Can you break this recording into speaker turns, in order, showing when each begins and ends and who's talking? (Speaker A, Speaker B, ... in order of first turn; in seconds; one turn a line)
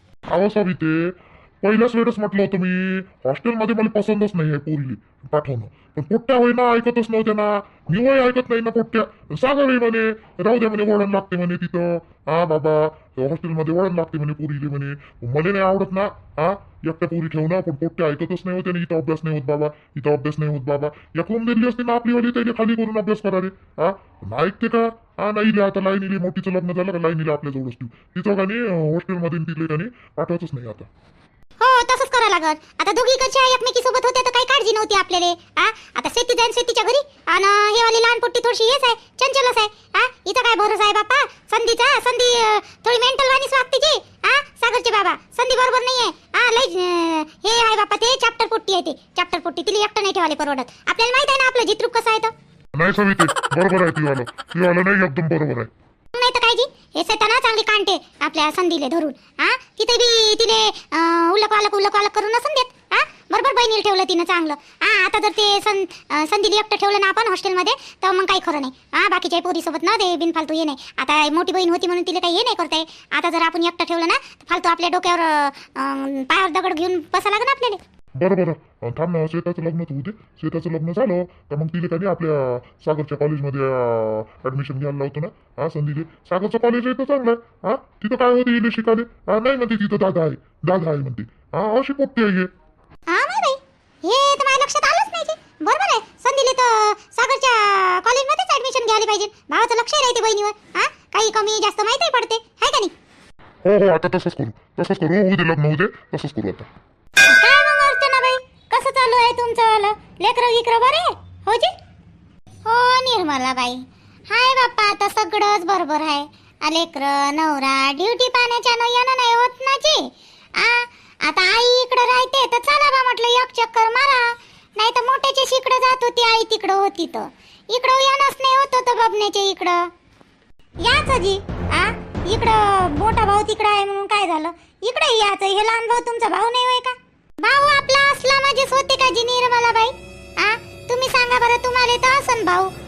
Speaker A: 0.3-30.9
Speaker B: 31.6-52.3
Speaker A: 52.8-55.7
Speaker B: 56.1-77.8
Speaker A: 78.2-92.5
Speaker B: 93.1-102.9
Speaker A: 103.6-106.7
Speaker B: 107.2-111.8
Speaker B: 112.7-129.9
Speaker B: 130.8-142.7